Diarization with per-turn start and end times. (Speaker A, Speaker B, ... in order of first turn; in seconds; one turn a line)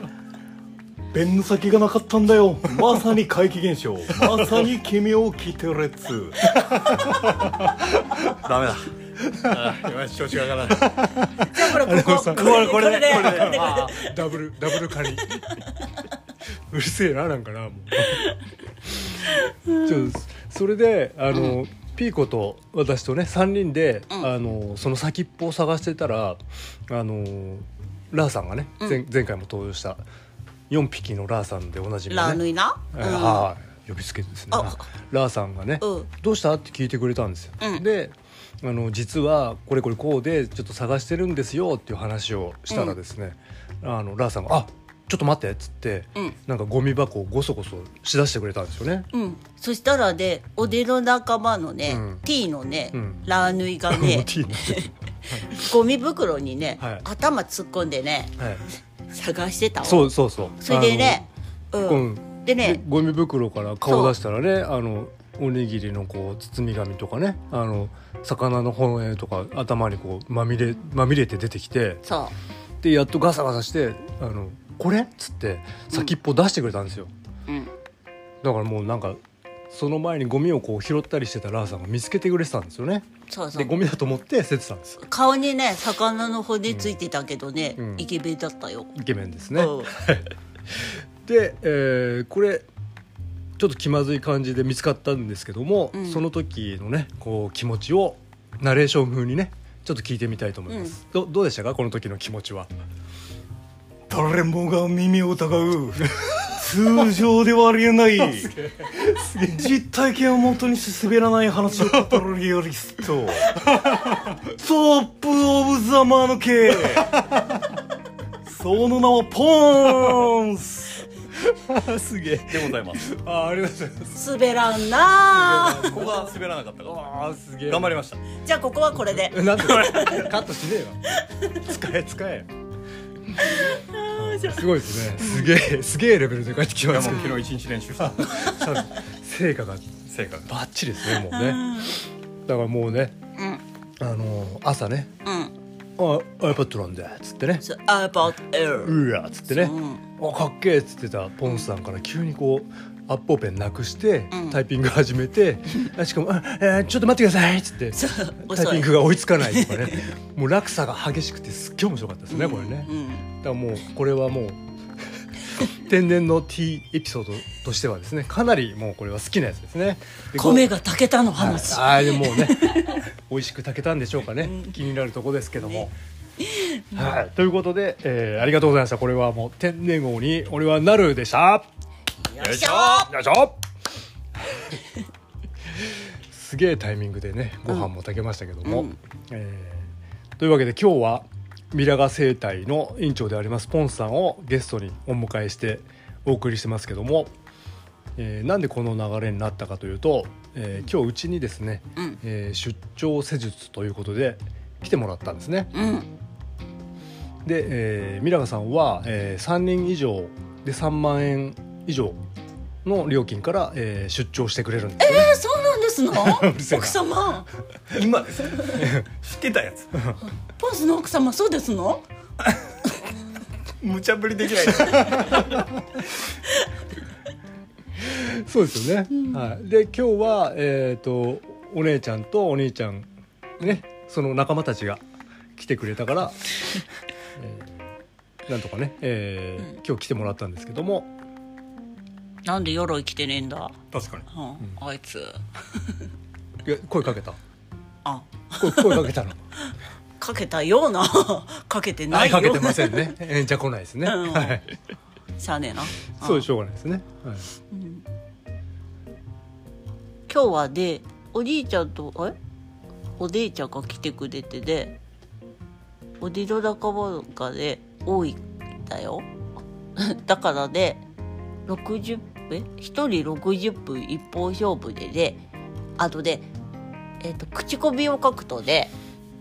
Speaker A: 1.1-11.0
Speaker B: 6.5-7.8
Speaker B: 10.7-15.6
Speaker C: 11.4-14.1
Speaker A: 12.3-13.9
Speaker B: 16.7-18.3
Speaker B: 18.9-19.2
Speaker C: 19.3-20.0
Speaker B: 19.8-30.0
Speaker B: 30.7-49.1
Speaker C: 32.1-33.5
Speaker C: 34.5-34.8
Speaker C: 35.8-36.1
Speaker C: 42.7-43.0
Speaker C: 49.1-58.4
Speaker B: 51.9-52.2
Speaker B: 52.9-53.2
Speaker B: 53.9-55.5
Speaker B: 56.8-57.0
Speaker B: 58.4-58.6
Speaker C: 59.1-62.8
Speaker B: 59.8-61.2
Speaker B: 61.8-72.0
Speaker C: 63.9-64.1
Speaker C: 72.0-72.3
Speaker B: 72.8-77.1
Speaker B: 78.4-79.2
Speaker B: 79.7-85.0
Speaker C: 83.3-83.7
Speaker C: 85.0-88.9
Speaker B: 87.8-88.1
Speaker B: 88.9-92.7
Speaker C: 89.5-89.9
Speaker B: 93.6-102.7
Speaker C: 95.9-96.2
Speaker C: 100.7-101.0
Speaker A: 104.1-108.5
Speaker B: 106.1-106.4
Speaker B: 108.2-109.5
Speaker A: 109.1-113.6
Speaker B: 111.8-112.2
Speaker B: 113.5-114.4
Speaker A: 114.4-117.2
Speaker B: 117.0-117.6
Speaker A: 118.5-121.0
Speaker B: 121.3-124.2
Speaker A: 122.5-123.1
Speaker C: 124.1-126.0
Speaker B: 125.2-128.0
Speaker A: 125.8-127.1
Speaker A: 127.7-128.2
Speaker C: 128.4-130.4
Speaker B: 129.1-132.5
Speaker C: 131.2-131.6
Speaker C: 133.4-135.5
Speaker B: 134.2-137.4
Speaker A: 136.9-138.6
Speaker C: 137.1-137.4
Speaker B: 138.0-139.9
Speaker A: 140.1-140.5
Speaker B: 140.4-141.9
Speaker C: 141.2-141.9
Speaker B: 142.4-143.2
Speaker B: 144.0-145.1
Speaker C: 145.2-145.5
Speaker B: 146.0-147.7
Speaker C: 147.6-149.0
Speaker B: 148.8-164.6
Speaker C: 149.5-150.0
Speaker C: 154.3-154.6
Speaker C: 157.9-160.1
Speaker C: 162.3-163.3
Speaker B: 165.6-170.7
Speaker C: 170.3-173.0
Speaker B: 171.4-175.9
Speaker C: 174.4-174.7
Speaker C: 175.6-175.9
Speaker C: 176.4-177.1
Speaker B: 176.9-181.7
Speaker C: 182.2-183.1
Speaker A: 182.4-183.1
Speaker B: 182.8-183.6
Speaker B: 185.8-197.3
Speaker C: 188.6-189.0
Speaker B: 198.2-205.7
Speaker C: 205.7-206.1
Speaker B: 207.4-212.2
Speaker B: 212.8-215.4
Speaker C: 215.0-217.5
Speaker B: 216.1-217.0
Speaker A: 217.9-220.0
Speaker B: 218.8-219.1
Speaker C: 220.5-222.0
Speaker A: 223.8-225.7
Speaker B: 228.0-235.0
Speaker B: 235.6-236.5
Speaker B: 237.3-237.9
Speaker B: 238.5-241.1
Speaker C: 242.4-243.8
Speaker A: 243.9-244.2
Speaker C: 244.3-246.0
Speaker B: 246.6-247.4
Speaker C: 248.0-249.1
Speaker B: 248.6-249.4
Speaker C: 250.2-253.2
Speaker B: 252.1-254.8
Speaker C: 254.0-254.6
Speaker C: 255.4-256.4
Speaker B: 256.2-257.5
Speaker C: 257.7-258.0
Speaker C: 260.3-262.4
Speaker C: 263.2-265.0
Speaker C: 266.2-269.3
Speaker C: 270.0-271.0
Speaker C: 271.7-275.4
Speaker C: 276.0-276.5
Speaker C: 277.2-278.9